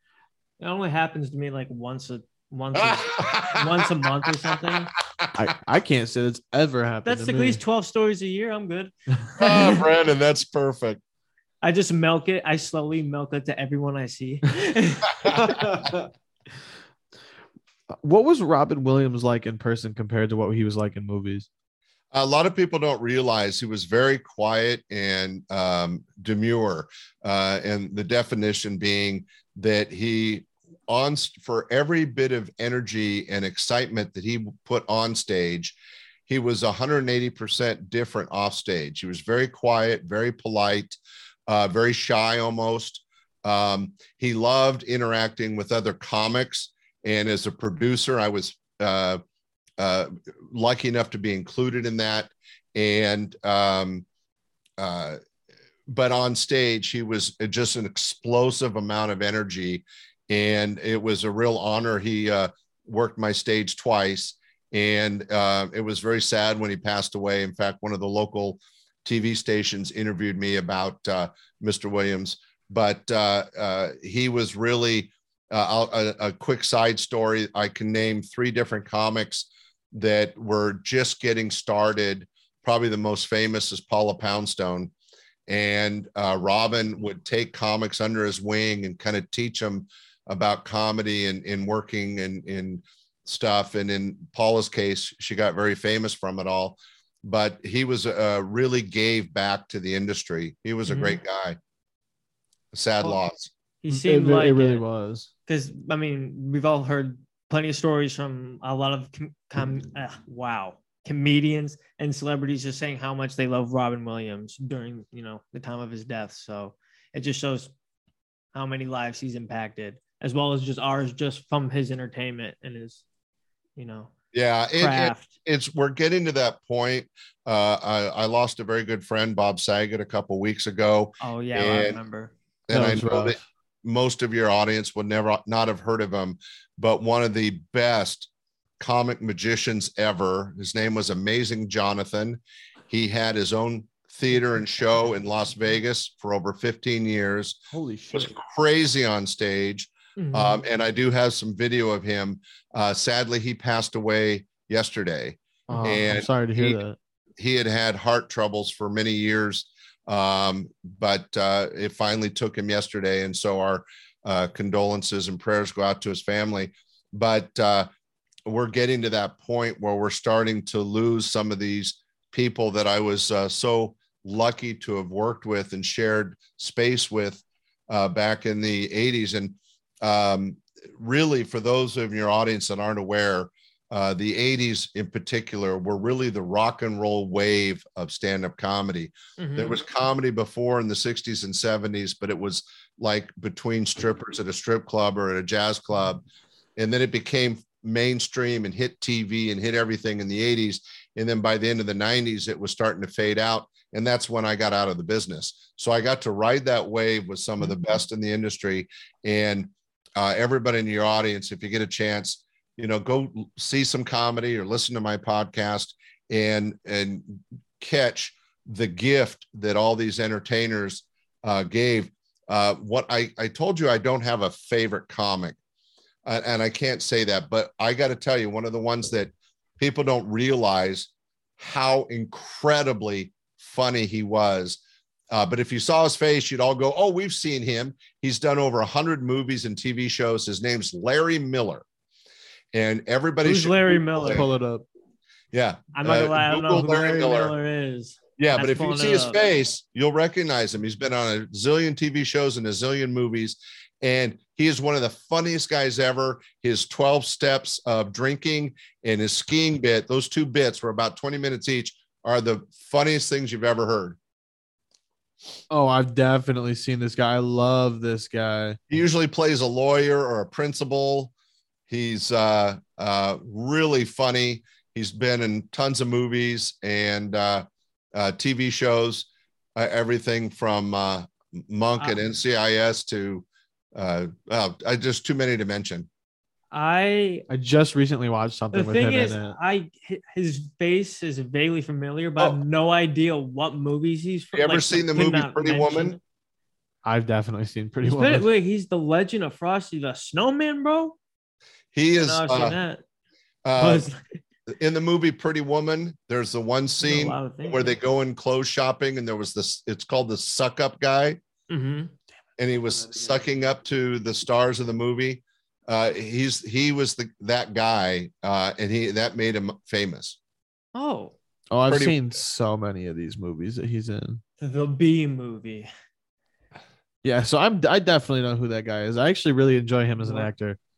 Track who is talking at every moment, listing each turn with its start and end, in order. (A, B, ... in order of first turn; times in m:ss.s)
0:00.6-0:04.9 A
0:02.7-0:05.3 B
0:05.4-0:07.6 C
0:07.0-0:09.7 A
0:09.4-0:11.0 B
0:11.6-0:15.6 A
0:15.2-0:15.6 B
0:15.4-0:16.0 C
0:17.9-0:21.5 C
0:22.1-0:35.8 B
0:36.3-0:40.9 B
0:41.5-0:49.2 B
0:49.8-0:54.0 B
0:54.8-0:55.2 B
0:55.9-1:24.9 B
1:25.5-1:41.6 B
1:40.8-1:41.2 A
1:42.7-1:43.5 B
1:43.8-1:44.8 A
1:43.9-1:45.3 C
1:45.4-1:57.7 A
1:58.5-2:03.0 A
2:03.8-2:04.1 A
2:04.3-2:12.0 B
2:04.8-2:05.3 A
2:11.2-2:12.3 A
2:12.7-2:18.3 B
2:12.7-2:13.4 C
2:18.8-2:27.6 B
2:27.7-2:28.3 C
2:28.1-2:36.8 B
2:30.2-2:30.6 A
2:35.7-2:37.0 C
2:37.4-2:47.9 B
2:48.5-3:16.2 B
3:09.4-3:09.8 A
3:16.8-3:45.6 B
3:46.2-3:54.8 B
3:55.3-4:01.8 B
4:02.7-4:04.4 B
4:03.4-4:04.4 A
4:04.2-4:04.8 C
4:05.5-4:07.5 B
4:05.9-4:09.4 A
4:08.4-4:24.2 B
4:25.7-4:28.8 C
4:28.9-4:31.3 B
4:31.9-4:46.1 B
4:46.7-4:47.4 A
4:47.5-4:49.6 C
4:48.7-4:56.2 A
4:54.5-4:56.2 B
4:57.0-4:58.4 C
4:58.0-5:01.2 A
5:01.9-5:02.8 B
5:02.2-5:03.0 A
5:03.6-5:04.1 B
5:03.8-5:04.4 A
5:04.7-5:11.4 B
5:07.0-5:07.9 A
5:11.7-5:12.1 A
5:12.6-5:20.4 B
5:20.9-5:21.4 A
5:21.7-5:24.4 C
5:21.9-5:22.2 B
5:24.6-5:25.9 A
5:27.2-5:30.8 C
5:30.2-5:30.5 A